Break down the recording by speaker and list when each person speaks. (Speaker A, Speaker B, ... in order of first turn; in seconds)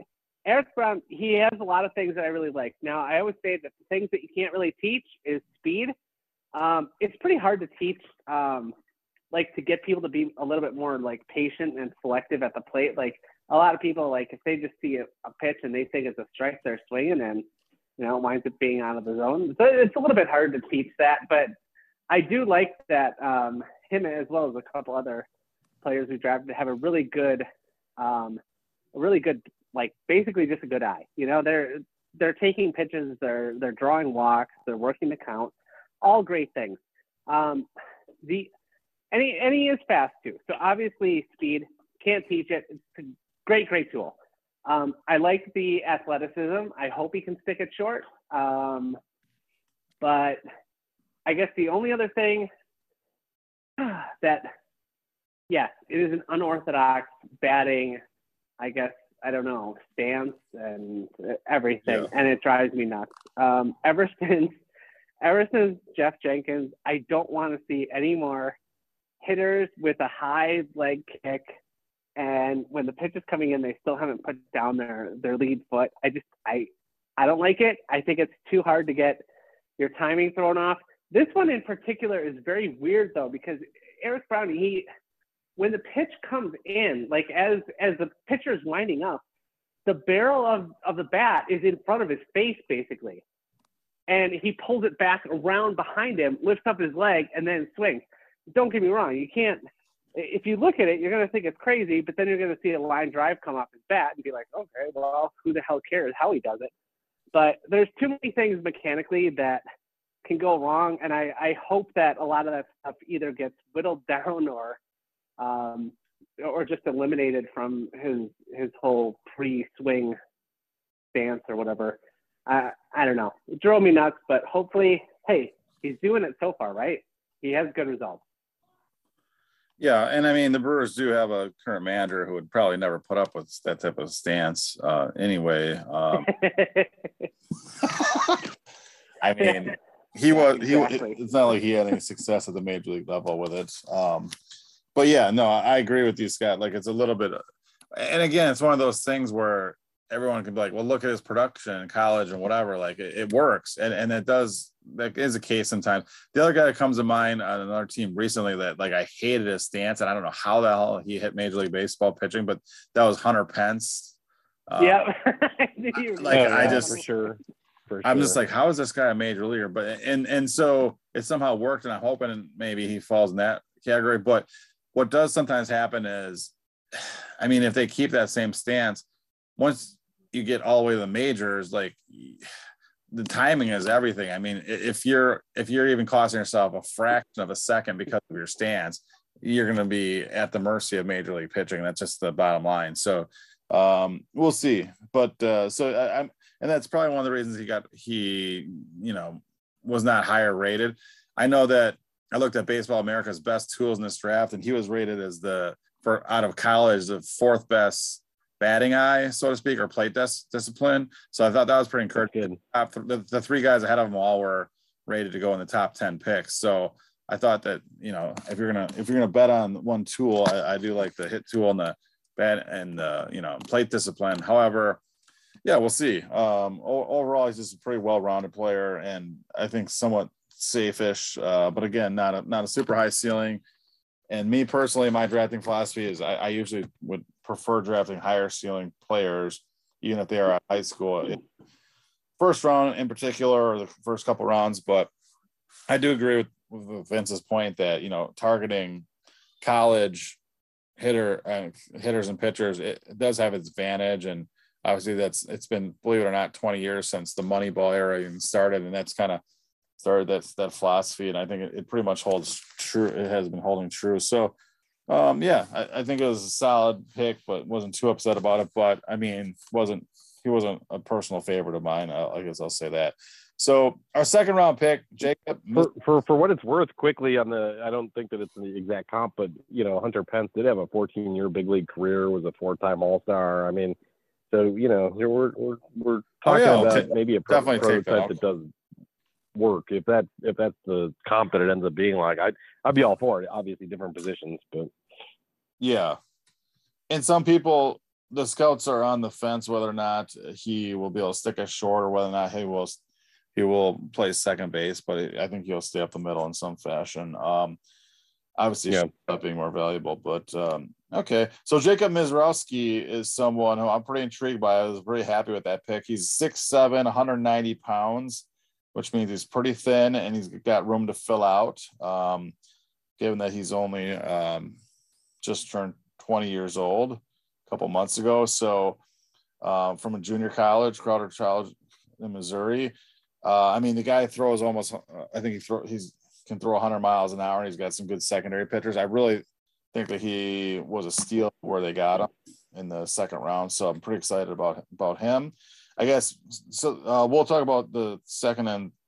Speaker A: 0.5-5.9, 6.5-8.7, 9.3-17.4, 18.0-21.5, 22.1-25.2, 25.8-27.4, 28.0-28.4, 28.9-37.7, 38.2-38.5, 39.1-44.1, 44.6-49.0, 50.0-50.4, 51.2-52.5, 53.8-54.5, 55.5-58.0, 58.6-64.6, 65.2-68.6, 69.2-71.5, 72.2-79.2, 79.8-84.8, 85.6-89.2, 89.8-93.2, 94.1-98.0, 98.5-106.7, 107.3-109.6, 110.2-114.8, 115.4-120.2, 121.1-128.2, 136.2-137.3, 139.4-139.7, 140.3-141.2, 164.8-167.0
Speaker B: 129.8-136.3, 137.8-138.4, 139.2-144.3, 144.9-147.4, 147.9-164.2, 164.7-165.1, 166.2-167.0, 168.0-179.0, 179.6-182.4, 183.1-225.0, 225.6-233.6, 234.3-241.4, 242.4-245.1, 245.9-249.1, 249.6-250.4, 251.0-259.4, 260.0-264.5, 265.1-275.9, 286.4-288.4, 295.8-296.2, 297.1-303.0, 303.5-307.8, 308.6-322.5, 323.2-324.8, 325.4-329.0, 329.6-348.9
Speaker C: 166.3-168.4, 212.2-212.6, 275.7-283.9, 284.5-288.7, 289.5-294.9